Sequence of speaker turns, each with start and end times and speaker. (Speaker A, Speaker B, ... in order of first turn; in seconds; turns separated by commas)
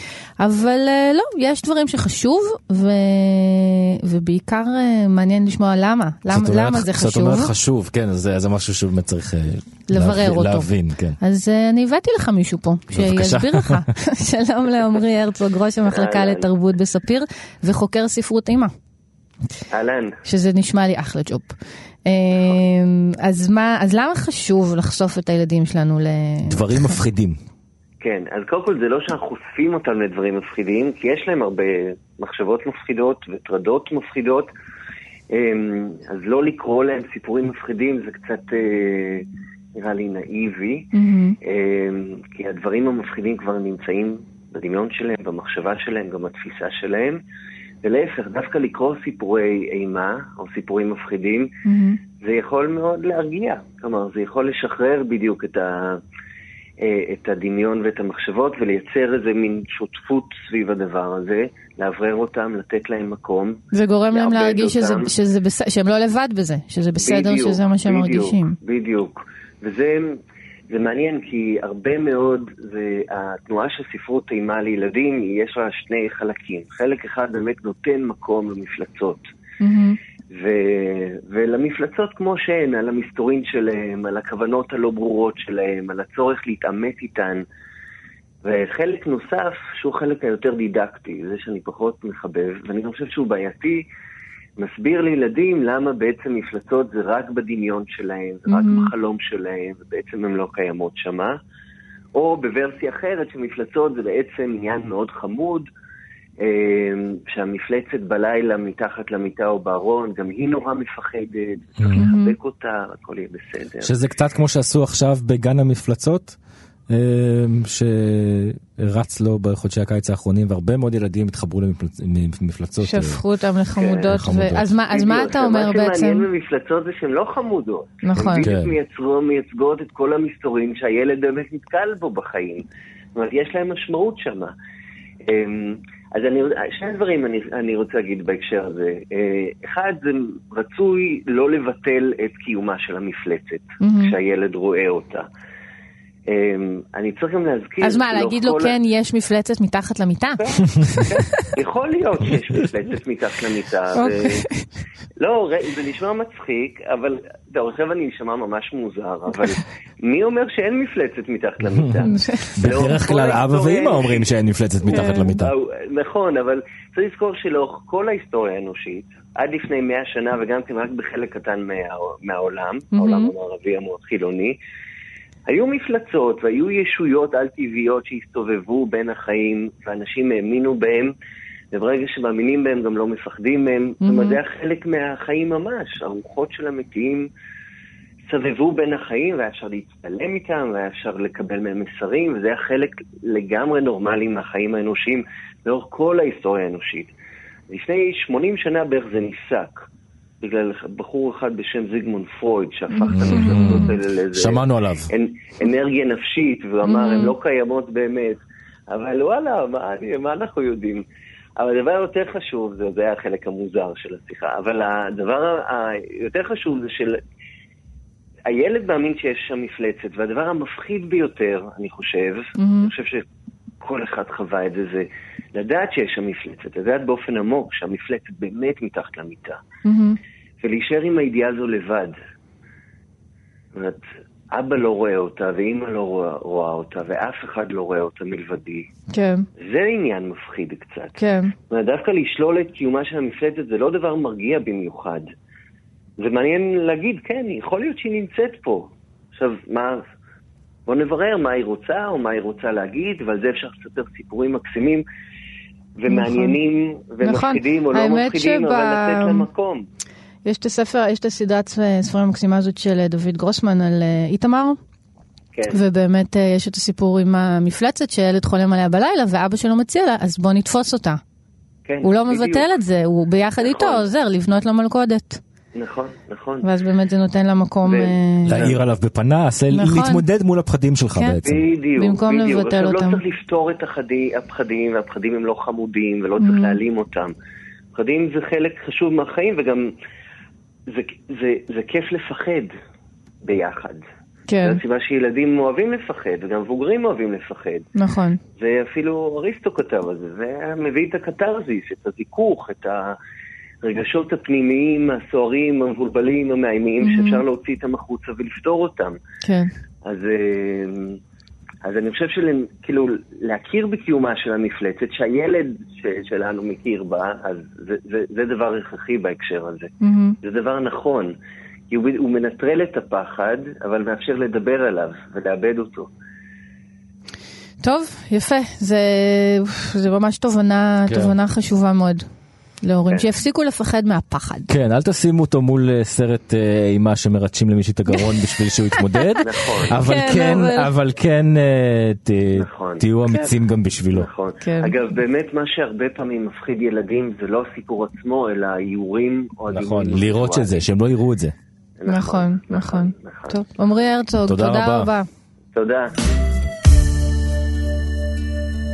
Speaker A: 0.4-7.5, Speaker B: 6.3-11.2, Speaker A: 9.9-18.7, Speaker B: 12.9-13.8, Speaker C: 15.9-16.5, Speaker C: 19.7-20.2, Speaker A: 20.2-21.5, Speaker A: 22.1-27.0, Speaker B: 26.4-27.4, Speaker C: 28.0-34.5, Speaker C: 35.3-40.9, Speaker A: 40.9-41.4, Speaker C: 41.4-47.2, Speaker C: 47.8-51.5, Speaker A: 51.6-52.0, Speaker C: 52.2-56.0, Speaker C: 56.8-65.1, Speaker A: 63.7-68.5, Speaker C: 67.0-79.2, Speaker A: 79.6-80.0, Speaker C: 80.3-87.5, Speaker C: 88.4-93.8, Speaker C: 94.6-101.4, Speaker A: 98.5-98.9, Speaker C: 102.1-105.7, Speaker C: 106.4-114.0, Speaker B: 111.8-112.0, Speaker A: 112.0-112.3, Speaker B: 113.8-116.3, Speaker B: 116.9-123.2, Speaker A: 122.8-126.3, Speaker C: 123.8-132.6, Speaker B: 124.0-124.7, Speaker A: 128.0-128.5, Speaker B: 128.4-128.8, Speaker C: 133.1-134.5, Speaker C: 135.3-145.3, Speaker A: 143.8-144.1, Speaker C: 146.3-148.8, Speaker A: 147.8-151.0, Speaker C: 150.4-154.4, Speaker A: 154.0-154.7, Speaker C: 155.2-174.6, Speaker A: 162.0-162.5, Speaker B: 162.6-165.5, Speaker A: 164.9-165.3, Speaker A: 172.9-173.3, Speaker C: 175.4-181.1, Speaker C: 181.7-187.3, Speaker A: 184.0-184.4, Speaker C: 188.3-197.1, Speaker C: 197.7-199.8, Speaker C: 200.4-211.0, Speaker A: 202.9-203.9, Speaker B: 203.1-205.1, Speaker A: 206.8-207.3, Speaker C: 211.6-217.2, Speaker C: 218.4-223.2, Speaker A: 222.6-222.9, Speaker C: 223.8-229.6, Speaker A: 229.8-230.2, Speaker C: 230.6-232.1, Speaker C: 233.7-238.9, Speaker A: 239.1-239.4, Speaker C: 239.6-245.3, Speaker A: 241.2-241.5, Speaker C: 246.2-250.0, Speaker C: 250.8-255.0, Speaker C: 256.0-259.9, Speaker A: 256.1-256.6, Speaker A: 257.2-259.5, Speaker A: 260.4-264.8, Speaker C: 265.5-265.8, Speaker A: 265.7-271.2, Speaker C: 271.9-272.6, Speaker A: 272.0-275.4, Speaker C: 273.6-274.1, Speaker C: 275.7-276.7, Speaker A: 276.6-278.7, Speaker C: 277.8-278.8, Speaker B: 278.4-281.6, Speaker A: 279.7-280.2, Speaker C: 281.4-287.3, Speaker A: 282.0-283.2, Speaker A: 286.4-286.8, Speaker C: 287.9-289.9, Speaker C: 290.9-292.7, Speaker C: 293.4-294.0, Speaker A: 294.5-294.8, Speaker C: 294.6-297.9, Speaker A: 297.9-298.4, Speaker C: 298.6-303.1, Speaker C: 303.8-309.2, Speaker A: 307.0-307.4, Speaker A: 309.4-309.7, Speaker C: 310.0-311.2, Speaker C: 311.8-321.3, Speaker A: 320.0-320.4, Speaker C: 321.9-326.1, Speaker A: 327.8-332.2, Speaker B: 331.1-331.3, Speaker A: 332.8-334.7, Speaker B: 334.7-344.3, Speaker C: 339.4-340.0, Speaker A: 340.0-340.9, Speaker C: 342.5-343.1, Speaker C: 344.1-350.8, Speaker A: 344.6-344.9, Speaker B: 349.7-351.5, Speaker C: 352.0-353.6, Speaker A: 352.1-355.3, Speaker B: 354.5-355.1, Speaker C: 355.7-356.1